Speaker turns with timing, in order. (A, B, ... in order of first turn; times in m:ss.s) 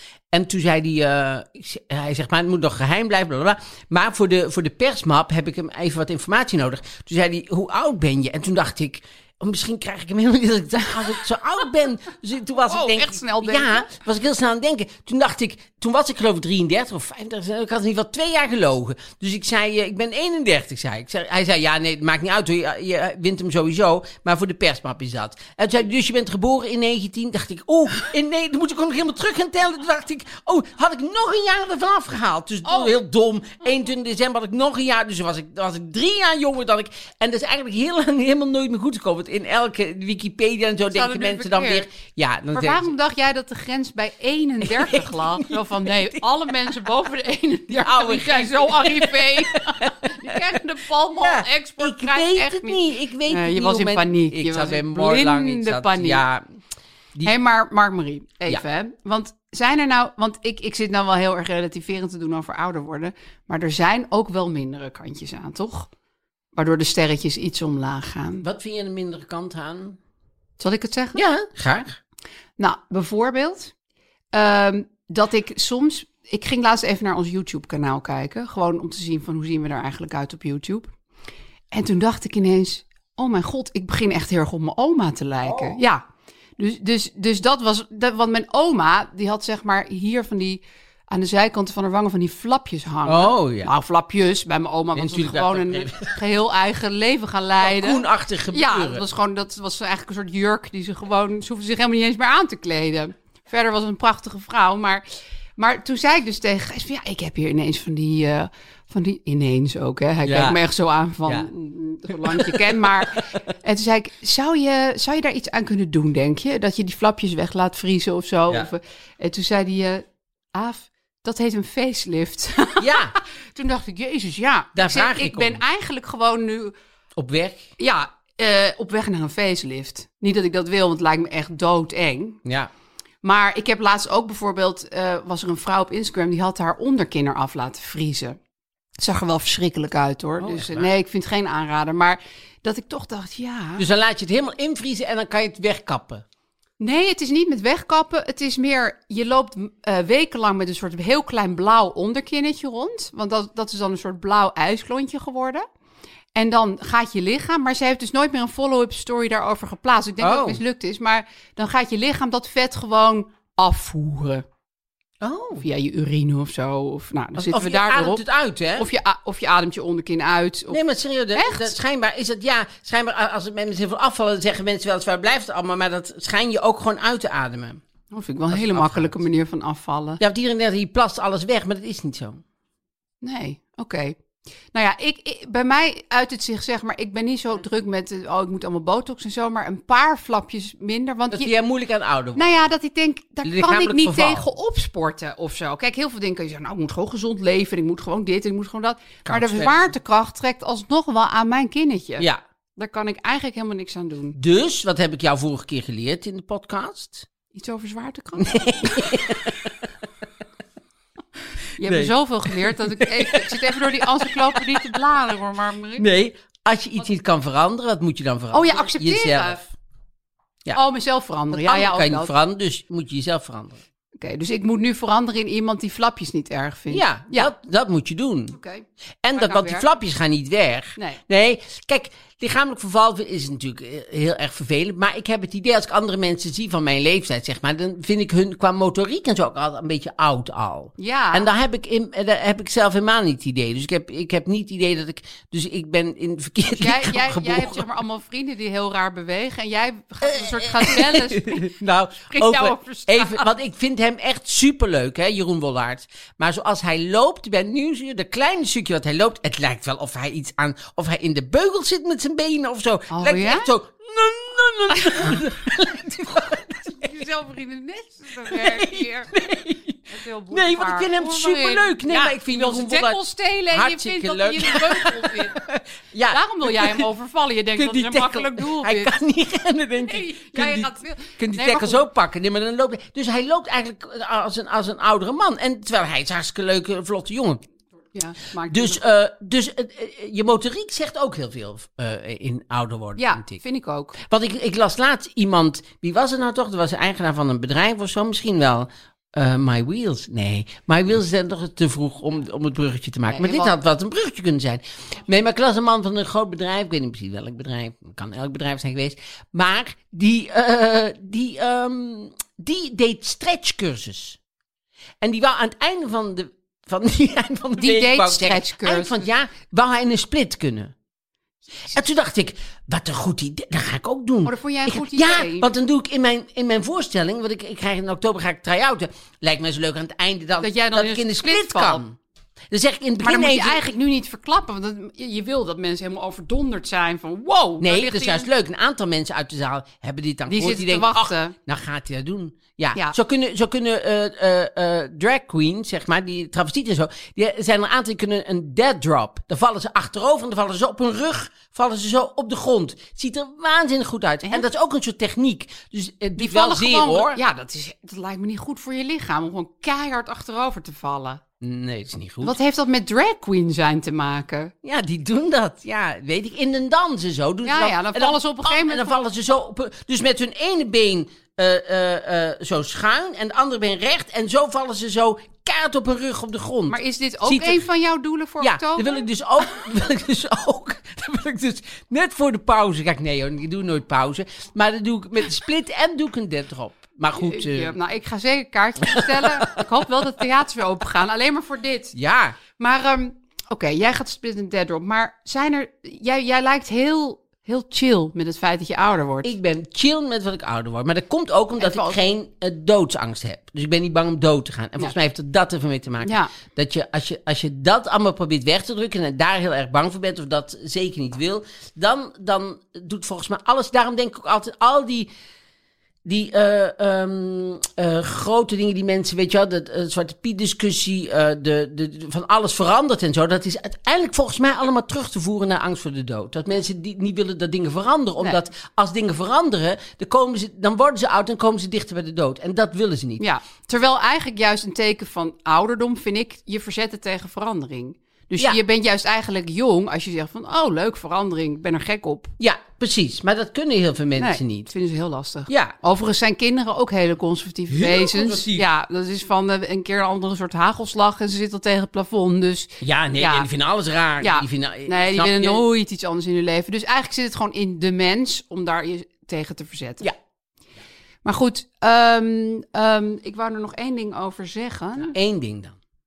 0:00.3-0:42.9 A
0:12.6-0:13.9 B
0:32.6-0:32.9 B
0:40.9-0:41.9 B
0:42.5-0:56.2 B
0:44.6-0:46.5 A
0:47.7-0:50.4 A
0:51.2-0:56.4 A
0:57.2-1:05.9 B
1:06.6-1:08.4 B
1:08.4-1:10.0 A
1:10.6-1:11.2 B
1:11.1-1:12.0 A
1:12.6-1:13.7 B
1:14.3-1:20.9 B
1:21.7-1:26.0 B
1:25.4-1:25.8 A
1:26.6-1:45.0 B
1:33.1-1:33.7 A
1:34.9-1:36.2 A
1:37.6-1:39.0 A
1:45.6-2:06.7 B
1:50.2-1:50.6 A
1:52.1-1:53.4 A
2:02.8-2:03.2 A
2:04.8-2:05.6 A
2:07.2-2:07.7 A
2:07.8-2:12.4 B
2:12.4-2:12.7 A
2:13.2-2:18.4 B
2:19.0-2:23.8 B
2:20.4-2:20.9 A
2:23.8-2:26.2 A
2:26.8-2:35.6 B
2:36.4-2:44.4 B
2:40.2-2:40.6 A
2:45.2-2:45.6 A
2:45.6-2:48.2 B
2:47.4-2:48.9 A
2:48.8-2:50.8 B
2:50.7-2:57.8 A
2:51.4-2:51.8 B
2:58.1-3:00.2 B
2:58.5-2:59.2 A
3:00.2-3:02.4 A
3:03.2-3:04.2 B
3:04.7-3:11.5 B
3:11.3-3:12.6 A
3:12.4-3:22.2 B
3:13.4-3:14.4 A
3:19.3-3:19.9 A
3:22.8-3:24.4 B
3:24.4-3:27.2 A
3:27.5-3:29.4 B
3:28.4-3:29.7 A
3:31.8-3:36.1 B
3:31.8-3:34.9 A
3:36.0-3:39.6 A
3:38.5-3:39.6 B
3:40.7-3:42.3 B
3:41.5-3:43.8 A
3:44.2-3:47.5 B
3:46.9-3:48.6 A
3:48.5-3:49.9 B
3:49.2-4:07.9 A
3:51.0-3:51.2 B
4:01.0-4:01.5 B
4:06.8-4:11.7 B
4:10.2-4:27.2 A
4:12.3-4:13.5 B
4:23.1-4:23.7 B
4:24.9-4:25.4 B
4:27.0-4:29.3 B
4:28.5-4:37.1 A
4:30.1-4:35.6 B
4:36.3-4:39.1 B
4:37.8-4:47.6 A
4:40.0-4:42.0 B
4:48.1-4:49.0 B
4:48.7-4:53.6 A
4:53.2-4:54.2 B
4:54.2-5:14.4 A
5:03.3-5:03.7 B
5:15.2-5:20.9 A
5:17.8-5:19.2 B
5:21.9-5:32.1 A
5:24.4-5:25.7 B
5:30.6-5:32.0 B
5:32.7-5:33.8 A
5:33.2-5:38.5 B
5:37.8-5:57.4 A
5:40.5-5:41.5 B
5:56.4-6:01.4 B
6:01.6-6:02.6 A
6:02.4-6:04.7 B
6:04.8-6:17.8 A
6:07.6-6:09.2 B
6:16.9-6:19.2 B
6:18.6-6:27.9 A
6:27.4-6:32.1 B
6:29.0-6:29.8 A
6:32.1-6:32.6 A
6:32.8-6:39.5 B
6:39.4-6:55.3 A
6:41.8-6:42.2 B
6:46.2-6:46.5 B
6:56.2-7:13.4 A
7:13.4-7:22.5 B
7:22.6-7:24.9 A
7:24.4-7:33.7 B
7:25.7-7:25.9 A
7:27.9-7:28.8 A
7:33.0-7:35.8 A
7:34.4-7:40.3 B
7:41.4-7:45.3 B
7:45.3-7:46.0 A